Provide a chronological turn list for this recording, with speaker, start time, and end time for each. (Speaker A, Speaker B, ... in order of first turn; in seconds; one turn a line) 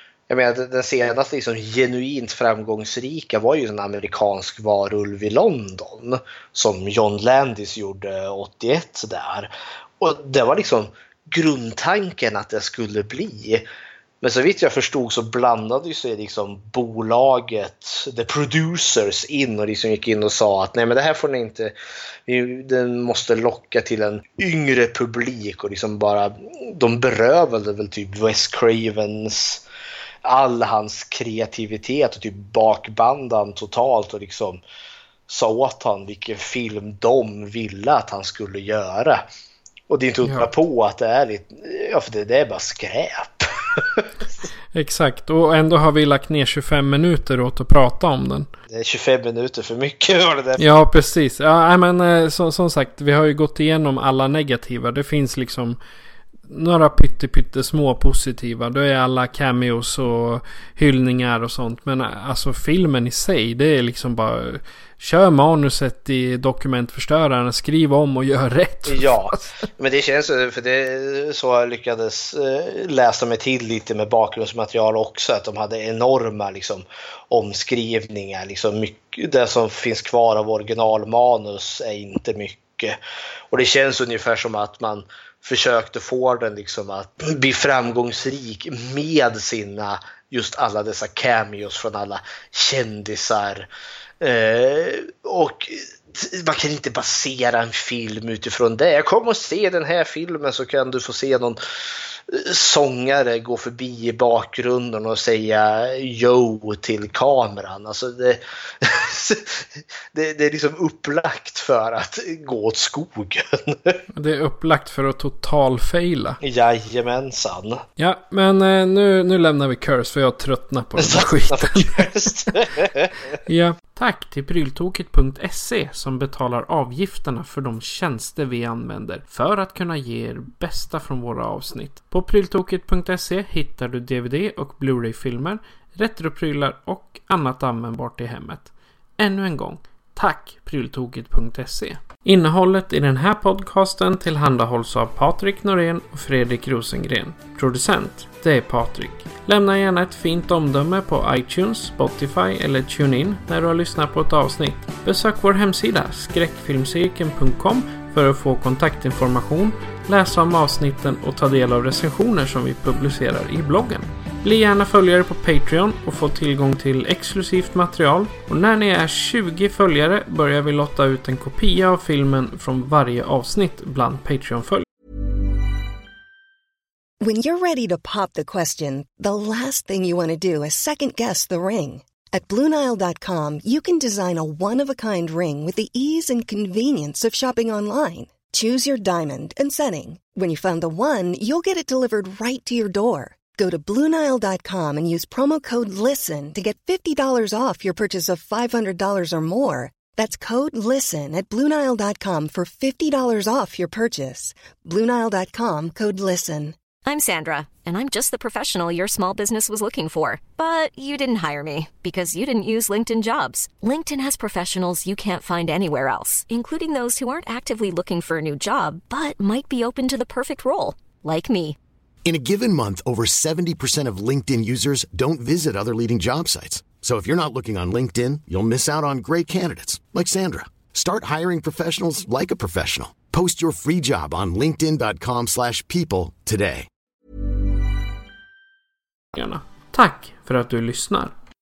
Speaker A: 0.3-13.7
Speaker A: 14.2-21.7
Speaker A: 22.3-29.6
Speaker A: 30.2-34.6
Speaker A: 35.3-39.3
Speaker A: 39.9-44.1
Speaker B: 40.2-40.5
Speaker B: 44.7-48.5
Speaker A: 48.7-50.6
Speaker B: 50.6-55.8
Speaker B: 56.5-69.5
Speaker A: 68.9-83.0
Speaker A: 83.5-93.7
Speaker A: 94.2-101.6
Speaker A: 102.3-114.0
Speaker B: 114.2-116.4
Speaker A: 116.4-117.8
Speaker B: 118.0-122.1
Speaker A: 121.0-123.1
Speaker B: 123.5-174.8
Speaker C: 177.2-206.8
Speaker D: 207.1-221.8
Speaker E: 222.2-236.9
Speaker B: 239.3-241.3